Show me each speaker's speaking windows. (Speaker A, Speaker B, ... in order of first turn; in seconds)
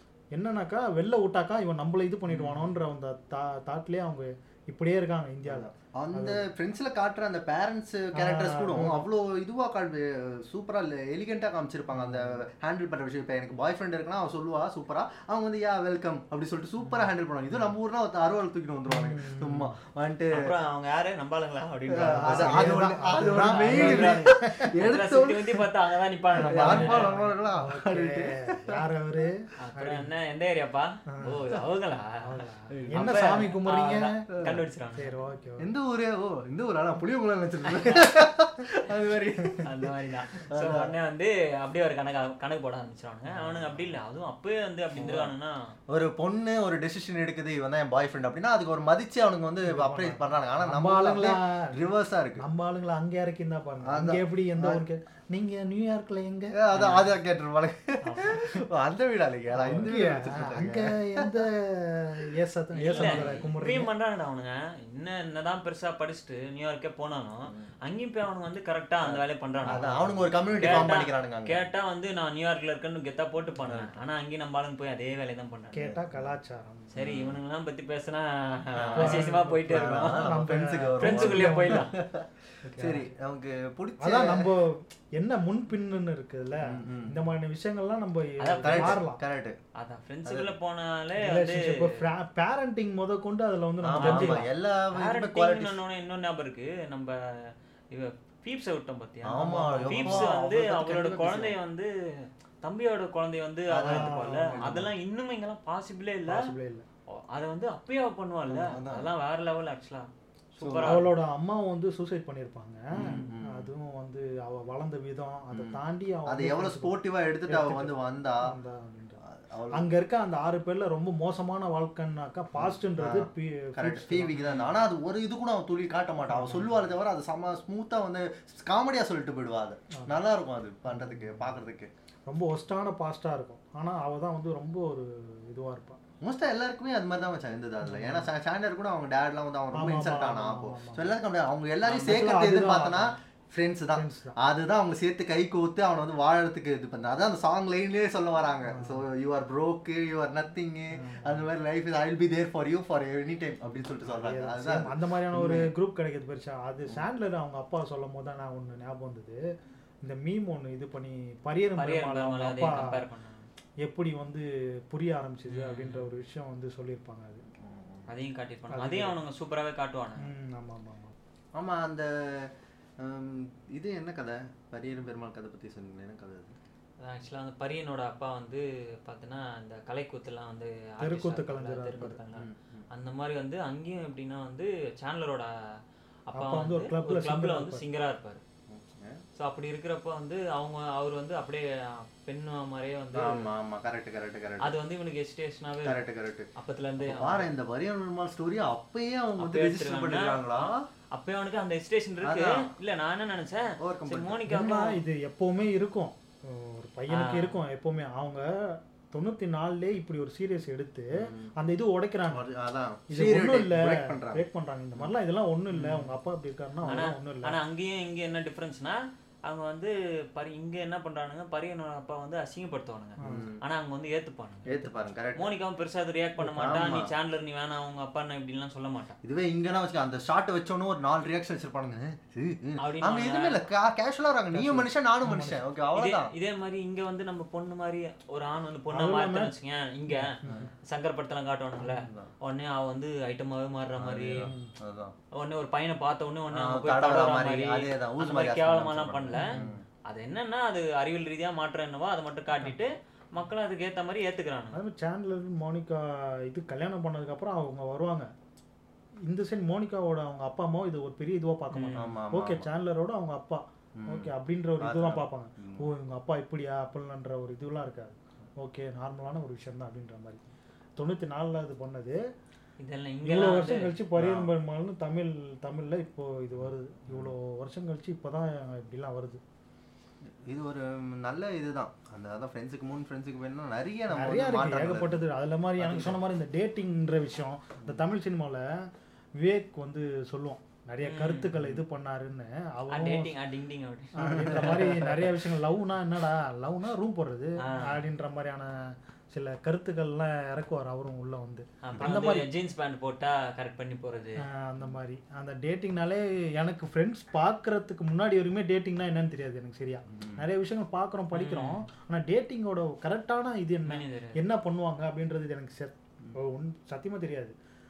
Speaker A: 0.3-6.5, 8.2-9.0, 11.9-12.4, 18.9-19.8, 22.0-24.7, 26.4-30.1, 31.1-31.4, 32.2-34.3, 35.0-35.7, 49.7-51.8, 52.4-56.6, 58.1-58.6, 59.5-63.9, 75.7-76.9, 79.0-81.9, 82.6-83.1, 84.0-89.2, 91.2-94.5, 99.8-100.3, 103.8-104.6, 106.3-106.9, 110.8-116.9, 117.5-124.7, 126.3-126.8, 129.9-130.2, 130.9-131.6, 132.3-136.0, 137.8-138.3, 139.7-141.1, 142.0-143.1, 144.0-144.4, 148.7-149.1, 150.9-151.5, 154.0-159.4, 160.0-163.0, 163.8-167.4, 168.7-169.2, 170.2-171.1, 181.0-182.2, 186.4-187.8, 204.5-212.4, 213.1-217.6, 223.2-223.5, 234.5-235.6, 238.9-239.5, 240.1-240.7, 244.4-244.7, 249.3-249.8, 254.7-258.3, 259.3-270.4, 271.0-272.2, 273.2-279.4, 284.1-288.6, 289.4-293.3, 294.2-302.5, 304.4-317.6
Speaker B: 2.3-2.8, 5.5-20.5, 21.9-25.6, 26.4-28.8, 32.7-33.5, 34.3-34.6, 35.6-39.9, 40.4-40.9, 43.3-44.0, 45.0-45.3, 45.9-52.4, 53.8-54.8, 56.5-61.4, 62.9-63.4, 67.5-67.7, 69.0-71.7, 73.7-73.9, 75.8-76.4, 77.0-77.4, 78.7-84.5, 86.6-87.2, 88.6-89.6, 90.2-90.5, 93.8-95.8, 99.2-101.6, 103.7-104.9, 108.5-109.1, 110.6-111.1, 112.9-113.7, 115.5-118.5, 119.2-119.9, 122.5-131.9, 136.2-155.7, 167.6-168.1, 171.6-176.5, 182.3-182.9, 188.7-189.2, 193.2-194.8, 195.8-196.5, 197.0-200.9, 202.2-202.7, 203.8-204.5, 211.2-211.5, 212.3-214.4, 223.2-223.6, 224.7-225.5, 226.5-227.1, 229.2-236.3, 240.4-240.7, 241.8-242.3, 244.0-245.1, 246.5-249.8, 262.0-262.7, 264.0-265.9, 274.2-274.5, 276.6-277.3, 280.3-285.2, 285.8-286.2, 291.6-291.8, 294.2-295.3, 310.1-310.5
Speaker C: 20.3-27.1, 29.6-32.2, 32.9-35.2, 37.7-38.1, 39.6-45.6, 56.7-57.1, 62.8-75.9, 76.9-80.3, 81.0-81.9, 88.4-89.0, 89.8-92.0, 94.0-106.5, 107.1-111.1, 141.8-142.3, 161.8-163.5, 165.5-166.1, 168.1-170.3, 177.0-185.5, 186.3-188.4, 189.4-193.5, 194.6-196.0, 196.6-197.5, 199.4-205.0, 207.1-207.6, 215.8-216.1, 216.8-229.2, 232.8-233.6, 235.9-240.3, 240.8-244.5, 245.3-249.5, 250.1-254.8, 261.7-262.1, 272.8-273.9, 291.0-291.5, 292.9-295.1, 297.6-298.0, 301.9-304.4, 311.3-311.9, 313.9-314.4